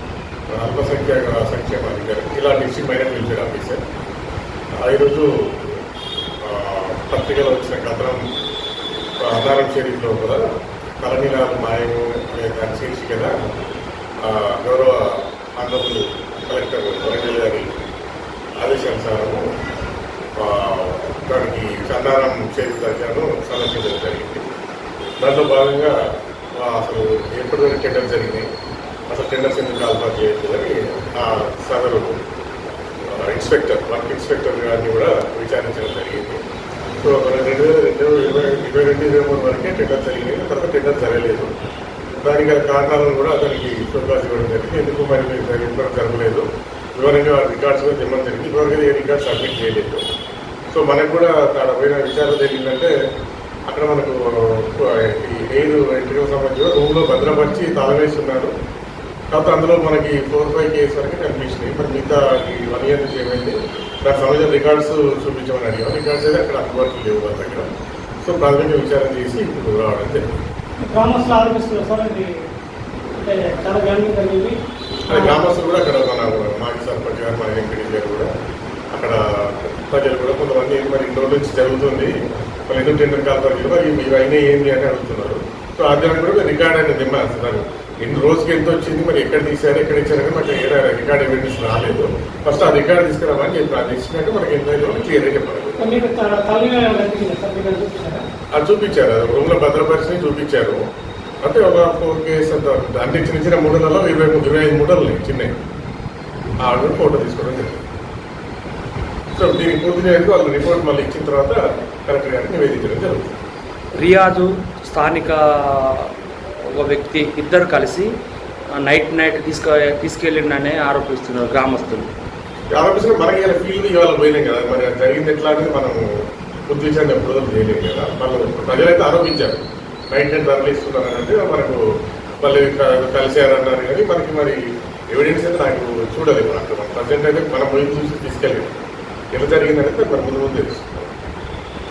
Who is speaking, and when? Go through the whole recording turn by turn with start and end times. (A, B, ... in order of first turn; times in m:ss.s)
0:00.5-0:03.8 A
0:04.8-0:05.8 A
0:06.4-0:08.2 A
0:09.2-0:10.4 A
0:11.0-0:13.3 A
0:14.2-0:17.7 A
0:18.6-0:19.4 A
0:20.4-0:24.4 A
0:25.2-0:26.0 A
0:26.6-0:28.5 A
0:29.1-0:32.2 A
0:33.1-0:36.4 A
0:37.0-0:41.6 A
0:42.2-0:46.5 A
0:47.0-0:50.1 A
0:50.7-0:52.9 A
0:53.7-0:58.5 A
0:59.3-1:07.7 A
1:08.2-1:10.2 A
1:10.8-1:12.3 B
1:13.1-1:14.6 B
1:15.1-1:18.3 A
1:15.1-1:15.4 B
1:18.9-1:22.2 A
1:22.7-1:35.9 A
1:35.8-1:38.2 B
1:38.6-1:40.8 A
1:41.4-1:45.5 A
1:46.6-1:47.8 A
1:49.4-1:53.3 A
1:53.9-1:56.1 C
1:56.7-1:58.1 C
1:58.8-2:02.1 C
2:02.7-2:11.8 A
2:12.4-2:14.6 A
2:15.1-2:18.7 A
2:19.4-2:21.1 A